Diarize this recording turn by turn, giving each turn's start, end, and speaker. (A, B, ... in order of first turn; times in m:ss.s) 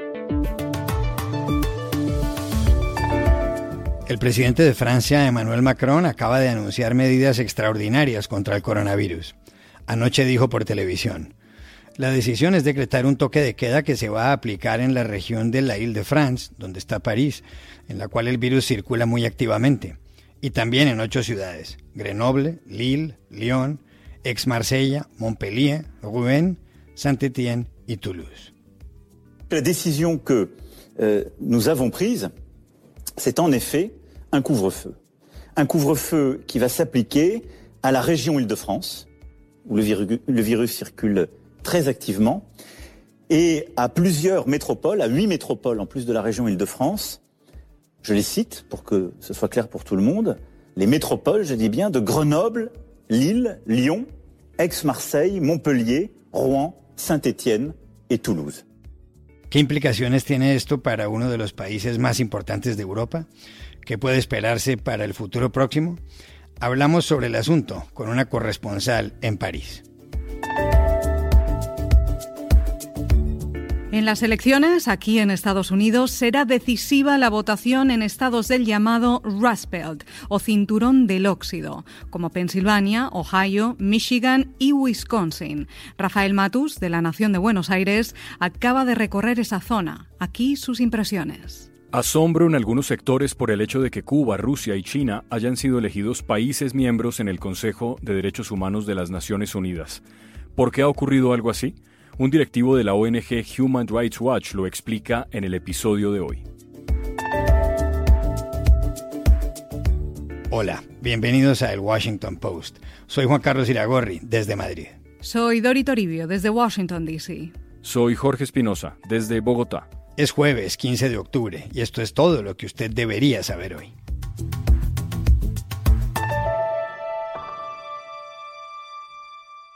0:04.1-0:09.3 A
0:09.9-0:11.3 A
0:12.0-0:28.5 A
0:29.5-0:32.3 B
0:33.2-0:35.0 B
0:35.6-0:39.1 B
0:39.7-0:42.5 B
0:43.3-0:47.2 B
0:48.0-0:54.0 B
0:54.6-0:58.6 B
0:59.5-1:03.3 A
1:03.8-1:06.0 A
1:06.6-1:09.8 A
1:13.9-1:31.7 C
1:31.9-1:40.0 D
1:40.5-1:46.4 D
1:50.5-1:55.0 A
1:55.2-1:57.5 C
1:57.8-1:59.9 D
2:00.2-2:03.9 A